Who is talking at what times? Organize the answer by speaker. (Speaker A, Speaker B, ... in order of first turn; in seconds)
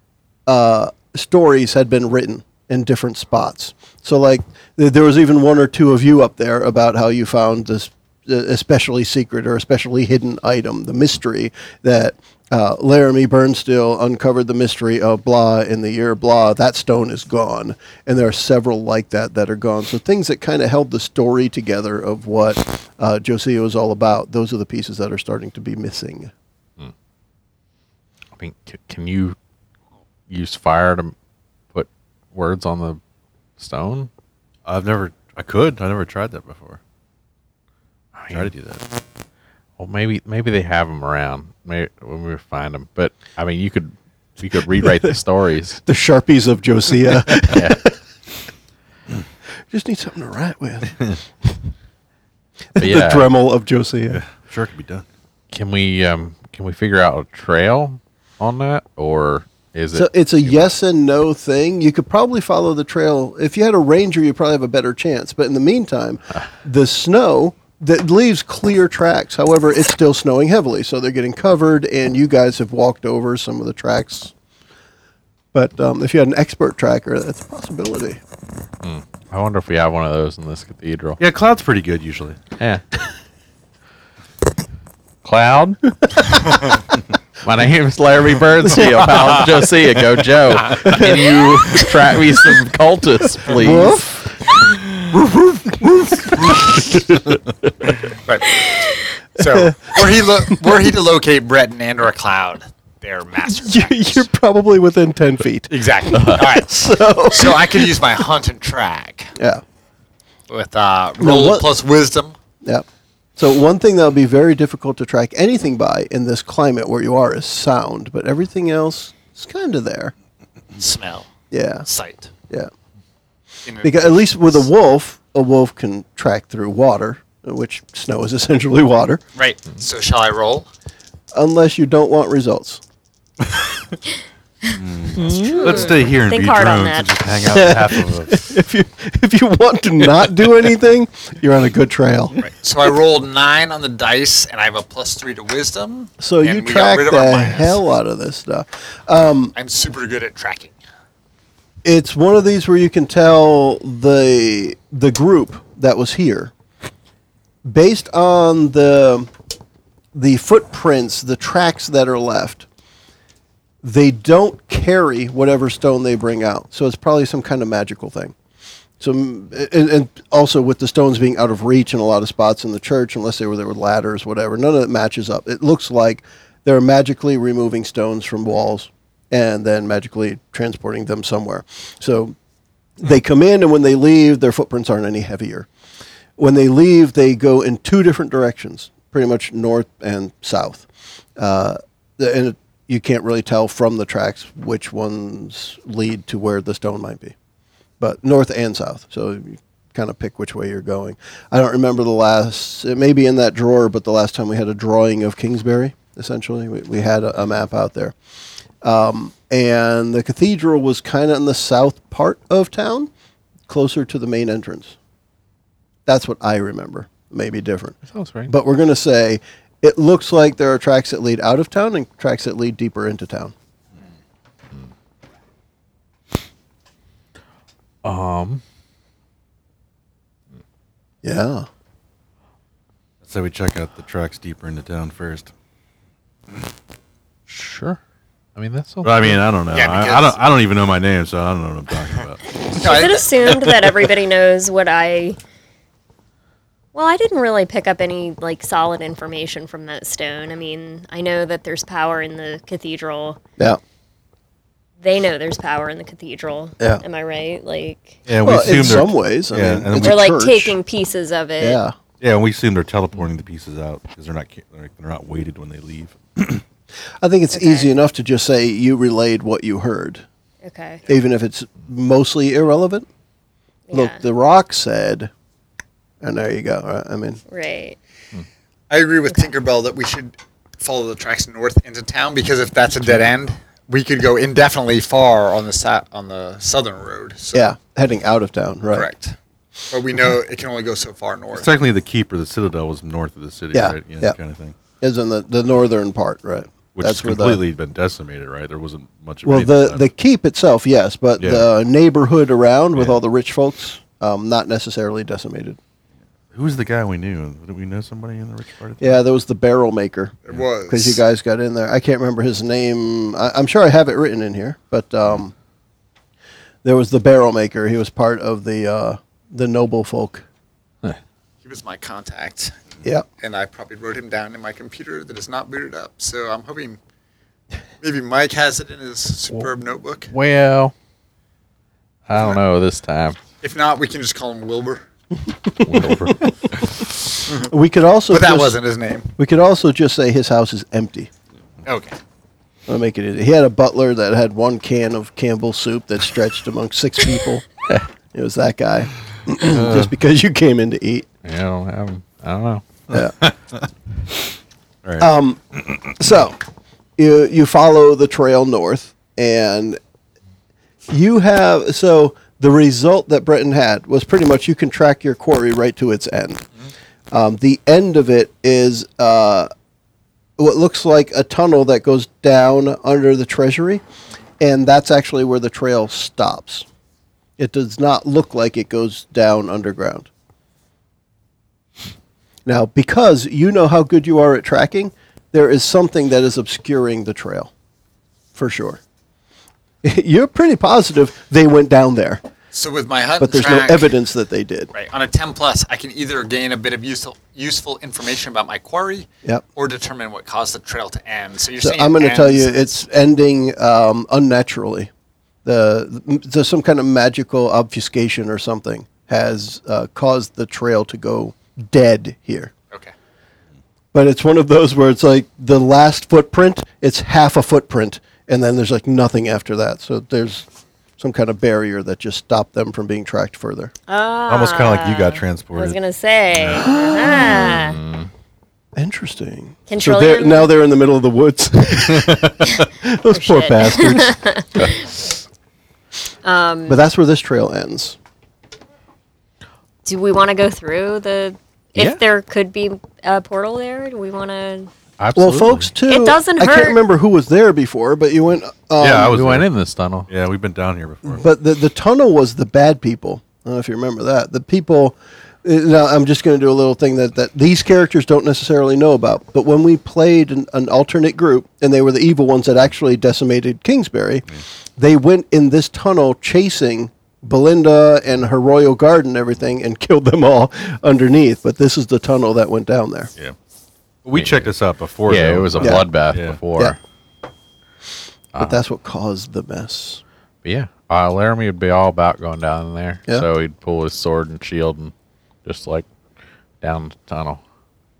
Speaker A: 0.5-26.3, 44.8-45.1, 45.9-48.0, 49.7-51.5, 52.7-54.2, 59.9-74.3, 75.5-78.2, 88.7-89.0, 90.8-91.2, 93.5-94.3, 95.1-96.6, 99.4-100.0, 103.5-108.0, 109.4-109.6, 111.2-111.7, 113.4-120.1, 121.5-121.9, 123.8-129.2, 131.3-132.8, 137.4-142.3, 146.2-149.5, 151.8-156.5, 157.7-159.3, 160.1-162.7, 163.8-168.3, 169.0-182.3, 183.0-185.7, 186.4-197.3, 198.0-208.1, 208.8-213.1, 213.7-214.9, 216.1-223.5, 231.2-231.7, 258.4-260.8, 261.6-261.9, 267.2-270.2, 271.1-273.1, 273.9-275.3, 276.2-277.4, 287.5-289.1, 293.7-294.4, 295.0-297.6, 299.4-305.8, 309.0-310.4, 310.9-315.5, 316.8-320.4, 335.7-336.1, 337.6-338.7, 339.4-341.3, 342.9-347.7, 348.3-351.3, 355.2-356.6, 357.2-360.0, 361.1-366.6, 367.3-369.7, 370.6-374.0, 374.6-376.9, 377.6-380.3, 382.6-387.7, 388.5-389.0, 390.0-392.4, 393.4-394.9, 401.8-405.1, 405.6-412.7, 414.1-420.7, 421.2-423.9, 426.8-427.8, 428.9-434.9, 436.9-438.2, 445.4-449.4, 451.2-464.4, 465.0-473.3, 475.8-476.1, 478.6-480.2
Speaker B: 28.4-29.4, 30.3-31.1, 31.7-33.0, 33.6-34.1, 38.1-38.5, 39.8-45.8, 47.4-47.8, 52.8-53.3, 55.5-60.7, 78.8-81.2, 82.6-82.8, 85.2-86.2, 87.4-94.0, 135.1-135.8, 218.1-218.5, 228.0-228.6, 237.5-238.0, 238.6-239.4, 330.3-330.9, 332.3-333.4, 335.8-336.9, 351.4-352.8, 427.6-428.3, 445.2-445.9, 449.2-450.3, 474.3-474.7, 475.3-477.0, 478.5-478.8, 480.6-485.1, 485.6-486.1, 486.8-487.6
Speaker C: 34.6-36.8, 38.3-38.8, 54.1-55.0, 81.2-82.4, 134.7-138.4, 233.2-235.5, 239.0-242.6, 258.3-260.2, 262.2-266.6, 291.5-294.8, 296.9-300.0, 301.4-301.6, 306.5-309.2, 424.5-426.0, 426.6-426.8, 449.0-449.7, 450.3-451.4, 474.2-476.6
Speaker D: 98.3-104.2, 105.7-109.3, 110.5-112.3, 120.8-121.3, 121.8-122.3, 123.7-124.7, 129.3-130.7, 142.4-147.8, 149.5-150.8, 239.7-240.4, 242.7-243.3, 278.9-287.7, 288.9-289.3, 289.9-291.7, 310.4-311.2, 321.6-322.7, 323.4-327.0, 328.0-330.3, 332.3-332.6, 333.6-335.0, 338.3-339.3, 341.8-342.1, 392.7-394.1, 394.9-402.8
Speaker E: 135.2-137.3, 242.8-245.4, 246.9-253.4, 255.0-258.2, 259.9-261.8, 267.5-267.9, 270.6-271.0, 273.9-274.2, 277.5-278.0, 424.1-428.0, 429.9-430.7, 433.3-435.1, 436.4-437.0, 440.0-444.9, 446.1-447.0